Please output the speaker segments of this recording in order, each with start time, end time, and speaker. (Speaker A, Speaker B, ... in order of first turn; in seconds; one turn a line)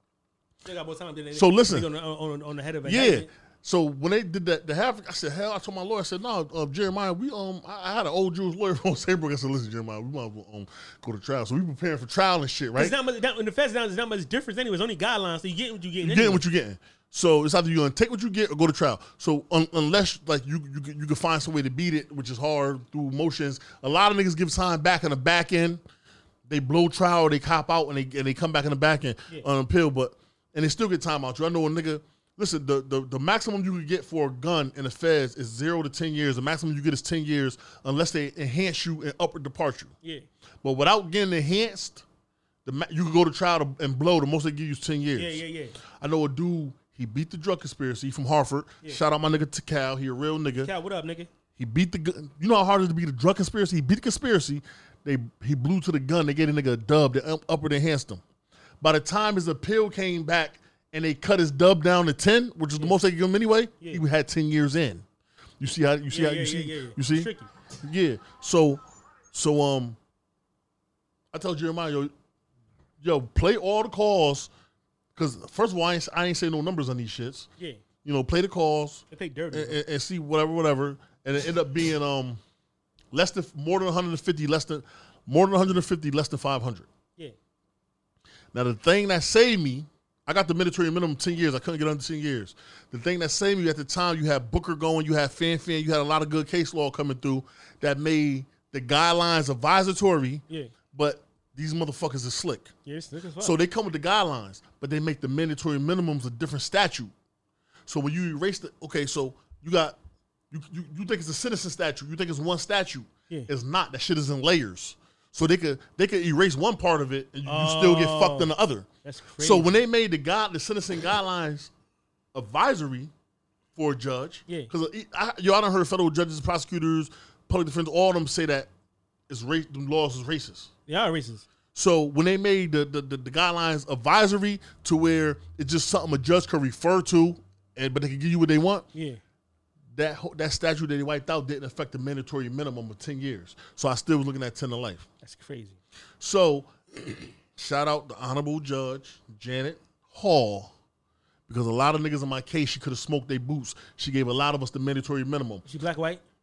Speaker A: 0.7-3.3
Speaker B: 1.3-1.9
Speaker B: 2.9-13.0
Speaker A: 12.8-16.4
Speaker B: 16.0-25.8
Speaker B: 26.5-39.9
Speaker B: 40.6-42.1
Speaker B: 42.6-45.4
Speaker A: 45.2-45.8
Speaker B: 46.0-50.7
Speaker A: 50.6-51.3
Speaker B: 51.6-58.2
Speaker B: 58.8-65.0
Speaker B: 65.6-70.0
Speaker A: 66.1-67.5
Speaker B: 71.3-72.1
Speaker B: 73.0-74.5
Speaker B: 75.2-77.5
Speaker A: 77.6-77.8
Speaker B: 78.0-82.4
Speaker A: 79.1-79.8
Speaker B: 83.1-86.9
Speaker B: 88.5-102.7
Speaker A: 102.9-103.5
Speaker B: 103.4-107.1
Speaker B: 107.9-110.0
Speaker B: 110.5-118.9
Speaker A: 117.5-119.7
Speaker B: 119.4-121.7
Speaker B: 122.3-123.1
Speaker B: 123.8-128.7
Speaker B: 129.3-130.7
Speaker A: 130.9-131.5
Speaker B: 131.8-138.9
Speaker A: 138.9-139.2
Speaker B: 139.9-145.1
Speaker A: 145.2-145.8
Speaker B: 146.2-150.7
Speaker B: 151.5-155.7
Speaker A: 155.7-156.2